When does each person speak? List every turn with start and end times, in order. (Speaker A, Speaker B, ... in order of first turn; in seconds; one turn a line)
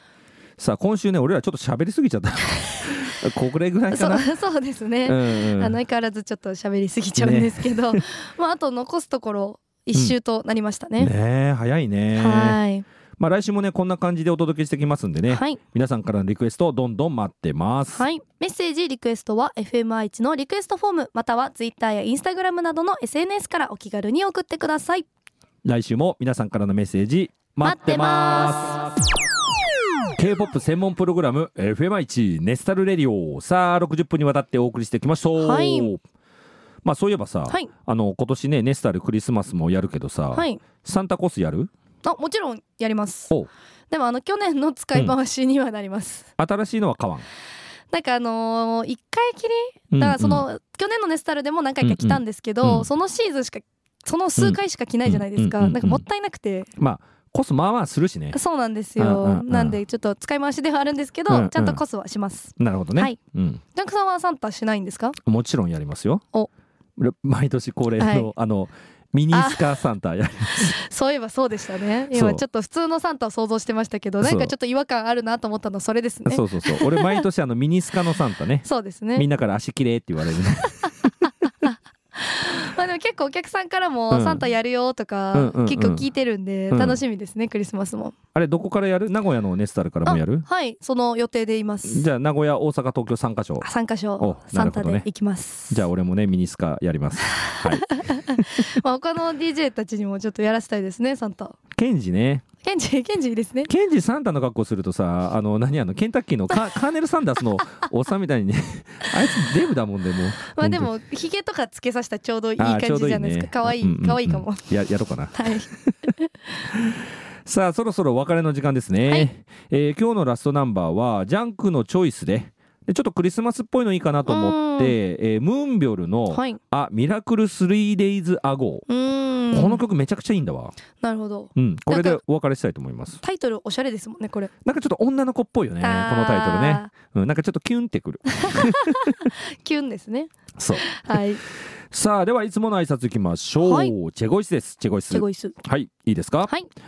Speaker A: 0.6-4.3
Speaker B: 3.9-11.1
Speaker A: 5.0-5.8
Speaker A: 7.2-8.0
Speaker A: 11.0-12.6
Speaker B: 12.2-12.9
Speaker A: 13.2-18.1
Speaker B: 15.3-15.6
Speaker B: 17.9-25.1
Speaker A: 25.6-28.9
Speaker B: 27.6-28.9
Speaker A: 30.2-36.0
Speaker B: 35.4-35.9
Speaker A: 36.8-41.7
Speaker B: 40.3-40.6
Speaker B: 42.0-43.3
Speaker B: 43.9-46.3
Speaker A: 46.4-47.3
Speaker B: 47.9-56.7
Speaker A: 49.9-50.5
Speaker A: 51.8-52.9
Speaker A: 54.4-56.0
Speaker A: 56.8-58.4
Speaker B: 58.3-63.2
Speaker A: 59.0-59.8
Speaker A: 61.3-61.8
Speaker A: 62.6-63.6
Speaker B: 63.7-65.2
Speaker A: 65.2-66.2
Speaker A: 67.0-70.8
Speaker B: 68.0-68.3
Speaker B: 69.3-69.8
Speaker B: 70.5-77.2
Speaker A: 72.1-72.4
Speaker A: 74.2-74.5
Speaker A: 76.2-81.1
Speaker B: 78.6-79.3
Speaker B: 81.6-88.2
Speaker A: 84.1-84.5
Speaker A: 85.3-86.1
Speaker A: 86.7-87.0
Speaker A: 88.3-90.5
Speaker B: 90.0-92.1
Speaker A: 91.8-93.7
Speaker B: 93.6-95.8
Speaker A: 94.2-95.1
Speaker A: 95.7-98.6
Speaker B: 97.5-101.6
Speaker A: 101.8-102.4
Speaker B: 102.6-103.7
Speaker A: 103.7-110.9
Speaker B: 110.5-114.7
Speaker A: 112.6-115.8
Speaker B: 115.3-116.3
Speaker A: 116.8-128.9
Speaker B: 124.3-125.0
Speaker B: 126.3-126.6
Speaker B: 128.9-129.8
Speaker A: 129.5-130.8
Speaker B: 131.0-132.2
Speaker A: 131.6-133.2
Speaker B: 133.2-134.5
Speaker A: 134.6-139.1
Speaker B: 135.8-136.9
Speaker B: 138.4-141.4
Speaker A: 140.6-141.2
Speaker A: 141.9-146.5
Speaker B: 143.6-143.9
Speaker B: 145.1-145.6